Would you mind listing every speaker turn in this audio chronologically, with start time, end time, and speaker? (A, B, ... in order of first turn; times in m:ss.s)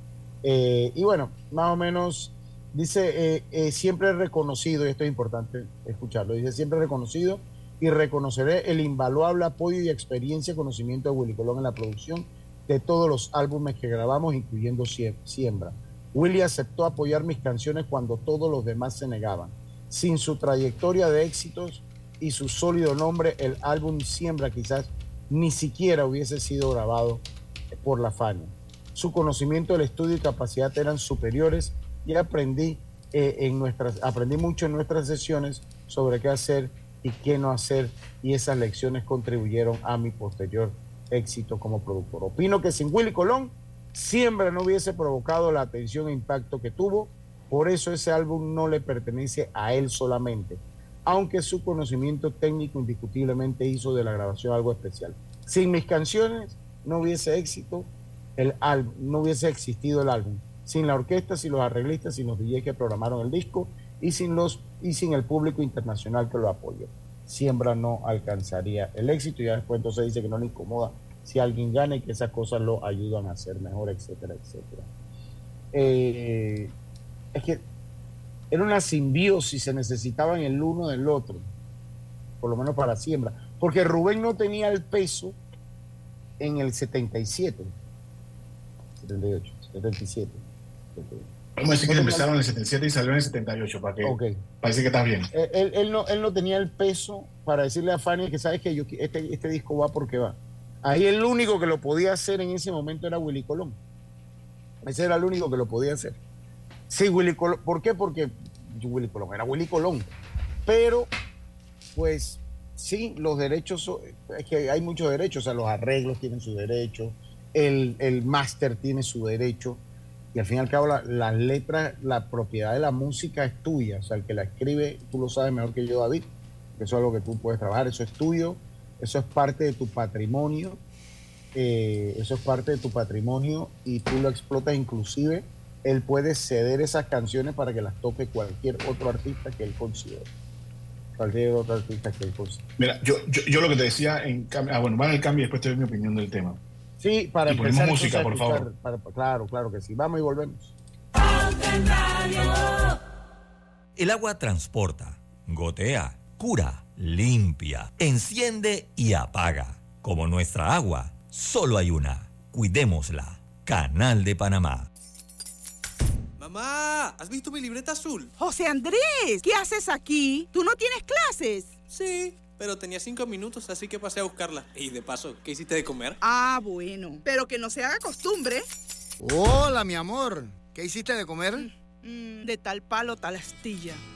0:00.4-1:14.9 A
1:15.7-1:16.7 A
1:17.3-1:17.6 A
1:18.5-1:21.5 A
1:22.4-1:25.4 A
1:26.4-1:27.7 A
1:29.0-1:31.3 A
1:31.6-1:35.3 B
1:31.8-1:32.3 A
1:34.0-1:34.3 A
1:35.3-1:43.8 A
1:44.8-1:46.2 A
1:46.9-1:50.1 A
1:50.6-1:51.1 A
1:51.9-1:59.8 A
2:00.3-2:10.8 A
2:11.5-2:20.3 A
2:21.2-2:22.6 A
2:22.8-2:26.6 B
2:27.0-2:30.7 A
2:27.5-2:28.7 B
2:34.0-2:44.9 C
2:46.4-2:48.3 D
2:48.4-2:51.8 E
2:52.0-2:56.1 D
2:56.2-2:58.6 E
2:59.2-3:01.5 F
3:01.6-3:04.0 E